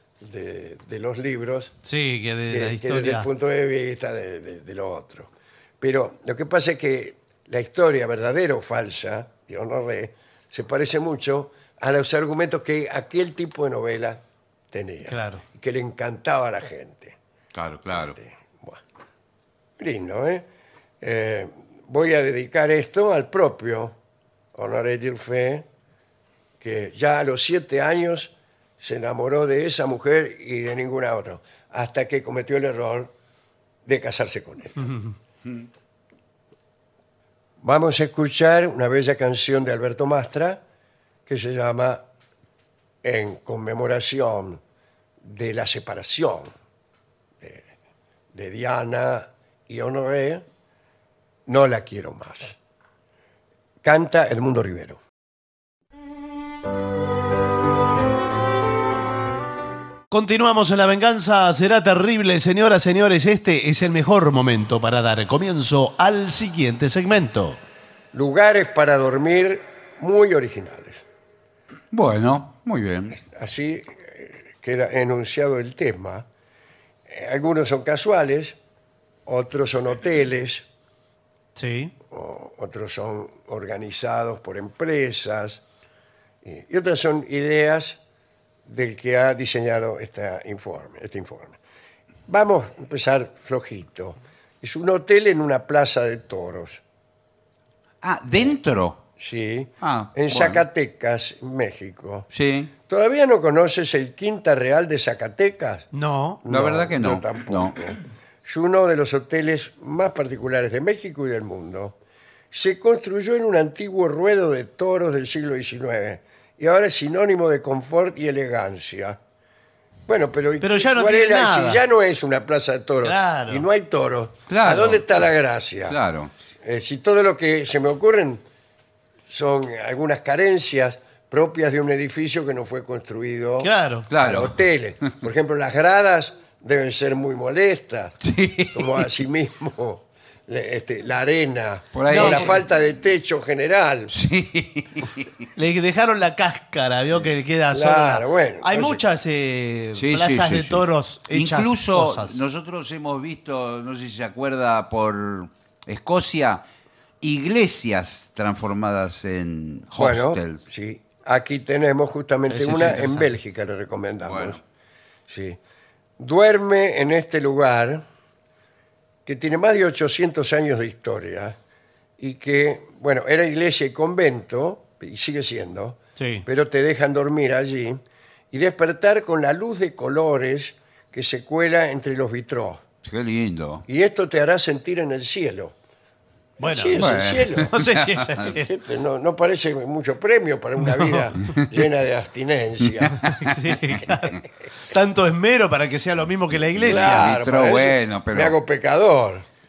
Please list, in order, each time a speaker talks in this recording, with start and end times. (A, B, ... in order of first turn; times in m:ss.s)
0:00.2-0:01.7 A
0:01.8-0:03.3 B
0:02.5-0:17.2 A
0:15.1-0:15.4 B
0:17.5-0:18.2 C
0:17.9-0:18.8 A
0:19.8-0:20.5 A
0:21.0-0:24.0 A
0:24.5-0:25.7 A
0:26.6-0:33.1 A
0:33.8-0:35.0 A
0:37.6-0:40.6 A
0:41.3-0:42.0 A
0:43.0-0:44.6 A
0:45.2-0:46.5 A
0:47.4-0:47.7 A
0:48.3-0:50.4 A
0:51.5-0:52.6 A
0:53.8-0:55.0 A
1:00.1-1:07.6 B
1:08.1-1:11.0 A
1:11.9-1:13.2 C
1:13.1-1:16.3 A
1:17.1-1:18.6 A
1:19.3-1:20.6 A
1:21.6-1:21.9 B
1:22.1-1:25.6 A
1:26.4-1:28.0 A
1:28.7-1:31.6 A
1:32.3-1:36.8 A
1:38.0-1:39.0 C
1:39.2-1:42.3 A
1:39.8-1:40.6 C
1:42.3-1:42.7 C
1:42.9-1:45.9 A
1:45.9-1:46.4 B
1:46.4-1:52.0 A
1:46.5-1:47.9 C
1:52.5-1:59.2 A
2:00.1-2:06.0 A
2:00.6-2:01.8 B
2:03.0-2:03.7 B
2:04.5-2:05.2 C
2:05.9-2:06.3 C
2:06.6-2:08.4 A
2:09.3-2:18.2 A
2:13.6-2:14.1 B
2:14.1-2:14.6 C
2:18.2-2:19.1 C
2:18.7-2:24.1 A
2:21.9-2:22.7 C
2:22.1-2:22.6 B
2:24.1-2:25.3 C
2:25.6-2:32.4 B
2:27.7-2:29.0 A
2:30.0-2:36.6 C
2:37.2-2:40.6 C
2:39.9-2:44.6 A
2:42.5-2:43.3 B
2:44.3-2:44.6 C
2:45.3-2:45.6 A
2:46.2-2:48.0 A
2:49.2-2:51.6 A
2:52.2-3:02.8 A
2:56.2-2:56.5 B
3:03.0-3:03.8 C
3:03.9-3:05.8 A
3:06.6-3:07.7 A
3:06.6-3:08.7 B
3:07.0-3:08.4 C
3:08.4-3:13.2 A
3:10.8-3:11.3 B
3:12.8-3:13.4 C
3:13.2-3:17.4 B
3:16.8-3:18.6 C
3:16.8-3:19.4 A